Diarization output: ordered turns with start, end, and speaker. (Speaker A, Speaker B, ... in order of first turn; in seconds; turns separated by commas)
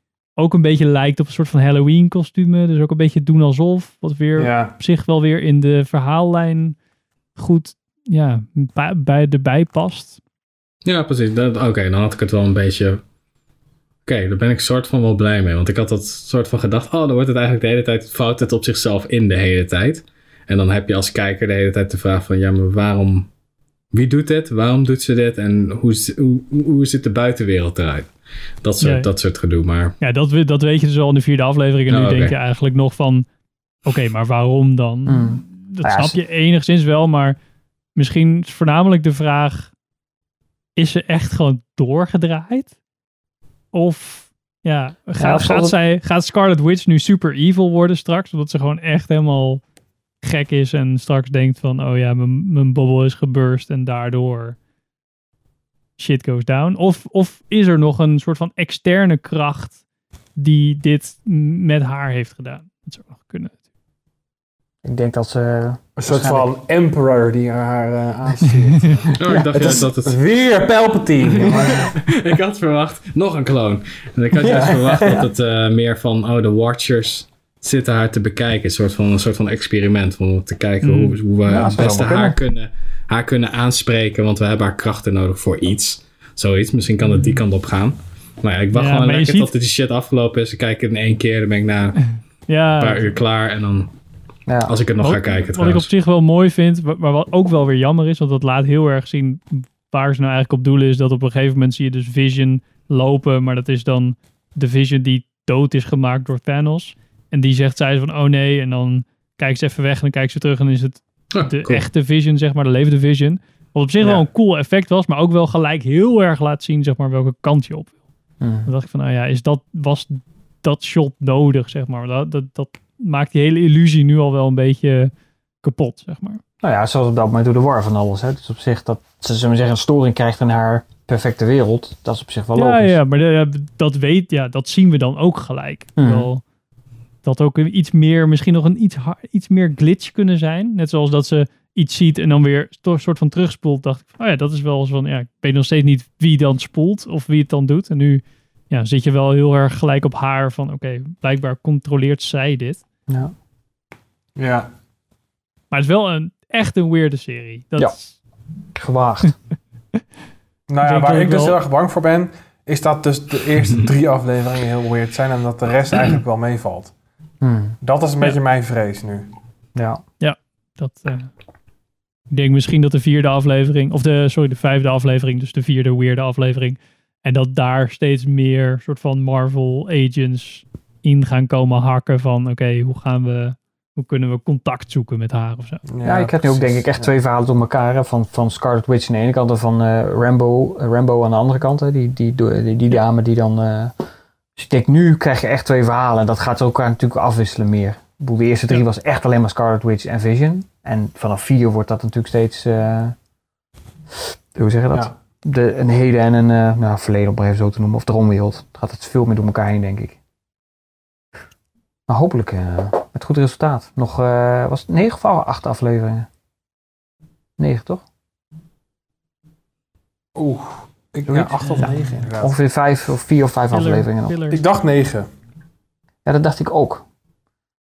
Speaker A: 0.4-6.8, Speaker B: 4.4-4.7, Speaker A: 7.3-10.2, Speaker C: 10.8-13.0, Speaker C: 14.1-23.3, Speaker C: 23.9-29.9, Speaker A: 28.8-29.1, Speaker A: 30.0-33.2, Speaker C: 31.9-32.3, Speaker A: 33.8-37.4, Speaker D: 35.1-36.2, Speaker A: 38.0-39.7, Speaker A: 40.8-42.7, Speaker A: 43.7-49.6, Speaker D: 45.2-45.8, Speaker A: 50.2-54.6, Speaker A: 56.0-59.8, Speaker A: 60.4-63.6, Speaker D: 64.8-66.5, Speaker B: 66.0-72.0, Speaker C: 69.1-70.2, Speaker C: 71.3-92.1, Speaker B: 74.4-75.2, Speaker D: 74.5-75.2, Speaker A: 80.8-81.2, Speaker D: 81.5-82.4, Speaker A: 88.7-89.5, Speaker A: 92.5-93.1, Speaker C: 92.8-93.9, Speaker D: 94.5-94.7, Speaker C: 94.7-95.9, Speaker A: 95.0-118.0, Speaker C: 111.3-111.8, Speaker D: 118.4-118.7, Speaker A: 118.6-126.4, Speaker D: 126.6-133.0, Speaker A: 132.6-136.4, Speaker D: 136.0-136.3, Speaker A: 137.2-152.8, Speaker D: 153.1-153.3, Speaker B: 154.4-154.7, Speaker A: 155.7-158.1, Speaker D: 158.7-159.3, Speaker B: 160.7-166.9, Speaker A: 160.8-161.6, Speaker C: 163.6-163.9, Speaker D: 167.4-167.8, Speaker B: 167.8-169.3, Speaker D: 169.7-170.0, Speaker A: 170.2-171.3, Speaker A: 172.3-185.8, Speaker B: 185.9-187.1, Speaker D: 186.0-193.9, Speaker D: 194.6-203.1, Speaker D: 204.5-210.2, Speaker D: 212.1-216.3, Speaker D: 217.6-218.0, Speaker B: 220.3-222.5, Speaker D: 221.3-224.3, Speaker A: 221.6-222.2, Speaker A: 223.7-224.6, Speaker B: 224.5-225.3, Speaker D: 226.2-227.0